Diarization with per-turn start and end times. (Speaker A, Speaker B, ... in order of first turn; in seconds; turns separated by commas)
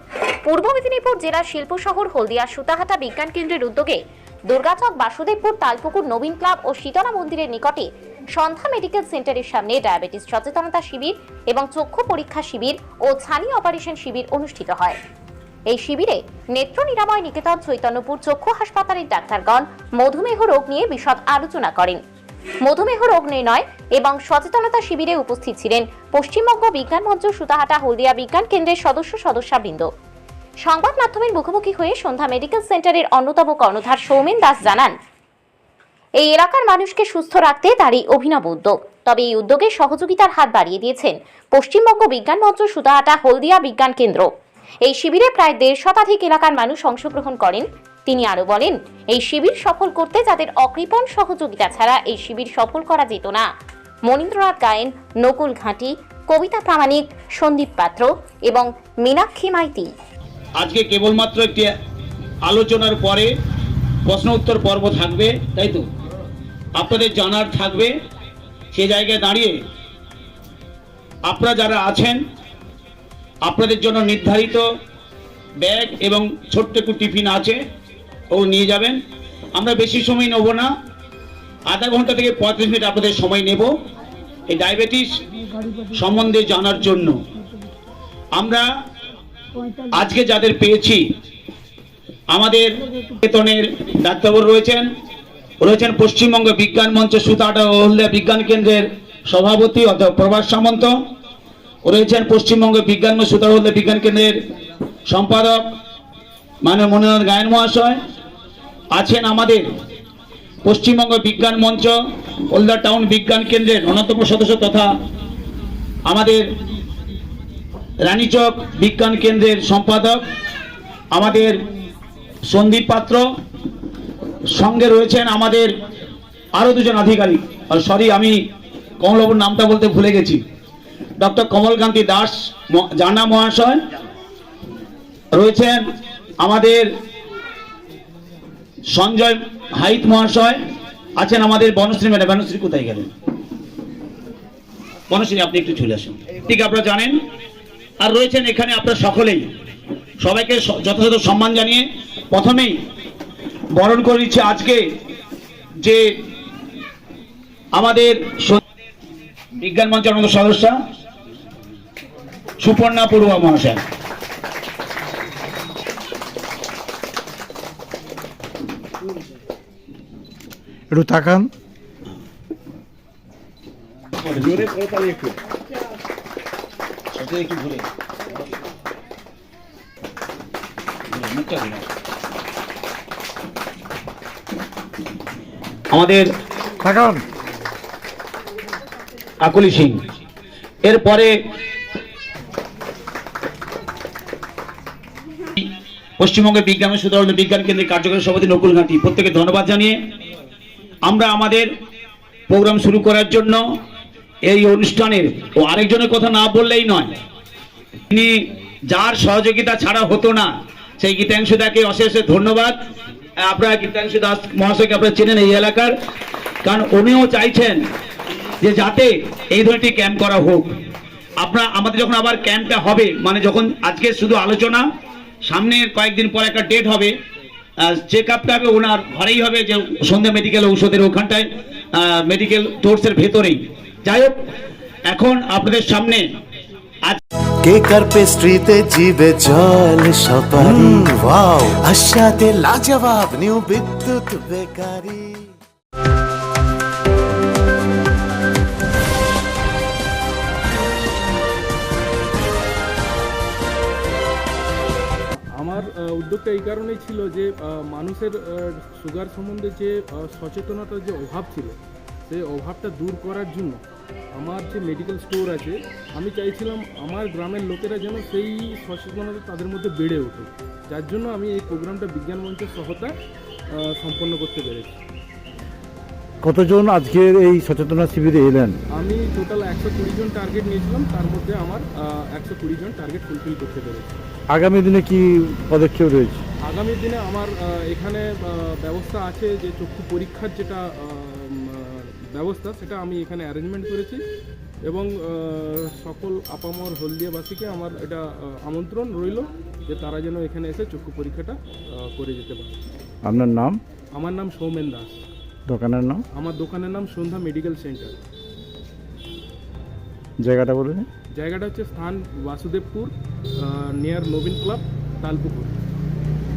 Speaker A: 0.4-15.0, Speaker A: 15.7-22.0, Speaker A: 22.6-29.9, Speaker A: 30.6-34.9, Speaker A: 36.2-44.3, Speaker A: 44.8-53.5, Speaker A: 54.1-59.9, Speaker B: 60.6-61.7, Speaker B: 62.5-63.3, Speaker B: 64.0-65.8, Speaker B: 66.8-67.9, Speaker B: 68.7-69.5, Speaker B: 71.3-72.2, Speaker B: 73.5-74.6, Speaker B: 75.6-77.6, Speaker B: 78.3-79.0, Speaker B: 79.5-80.7, Speaker B: 81.7-83.7, Speaker B: 84.5-85.1, Speaker B: 85.9-87.2, Speaker B: 88.3-88.6, Speaker B: 89.9-91.0, Speaker B: 92.3-94.8, Speaker B: 95.6-100.9, Speaker B: 101.8-104.4, Speaker B: 105.1-105.6, Speaker B: 106.6-108.0, Speaker B: 109.0-109.7, Speaker B: 110.6-111.9, Speaker B: 112.5-114.9, Speaker B: 116.1-116.4, Speaker B: 118.0-120.2, Speaker B: 121.1-121.5, Speaker B: 122.5-123.2, Speaker B: 124.5-125.7, Speaker B: 126.6-128.3, Speaker B: 129.0-130.4, Speaker B: 131.2-133.8, Speaker B: 135.3-135.8, Speaker B: 136.4-136.8, Speaker B: 138.9-140.6, Speaker B: 141.2-143.1, Speaker B: 145.1-147.2, Speaker B: 148.0-149.4, Speaker B: 150.2-152.7, Speaker B: 153.8-154.8, Speaker B: 157.8-158.6, Speaker B: 159.6-160.7, Speaker B: 162.6-163.8, Speaker C: 170.9-171.5, Speaker B: 174.2-175.1, Speaker B: 177.1-177.9, Speaker B: 181.1-181.8, Speaker B: 185.9-186.2, Speaker C: 186.8-187.2, Speaker B: 189.4-190.0, Speaker B: 190.8-191.3, Speaker B: 195.6-200.0, Speaker B: 201.0-201.7, Speaker B: 202.5-203.6, Speaker B: 204.5-207.1, Speaker B: 208.1-208.3, Speaker B: 208.9-210.5, Speaker B: 211.0-212.7, Speaker B: 213.4-215.9, Speaker B: 216.6-217.8, Speaker B: 218.6-220.7, Speaker B: 221.4-224.8, Speaker B: 225.4-227.1, Speaker B: 227.9-234.3, Speaker B: 235.1-236.2, Speaker D: 237.6-245.5, Speaker E: 255.5-263.8, Speaker E: 264.3-273.1, Speaker E: 273.7-274.9, Speaker C: 276.4-278.8, Speaker E: 278.9-284.2, Speaker C: 284.5-286.4, Speaker E: 286.6-294.2, Speaker E: 294.9-302.8, Speaker C: 303.2-303.8, Speaker E: 304.1-305.1, Speaker C: 305.7-306.2, Speaker E: 306.3-308.2, Speaker C: 310.4-311.1, Speaker E: 311.3-315.8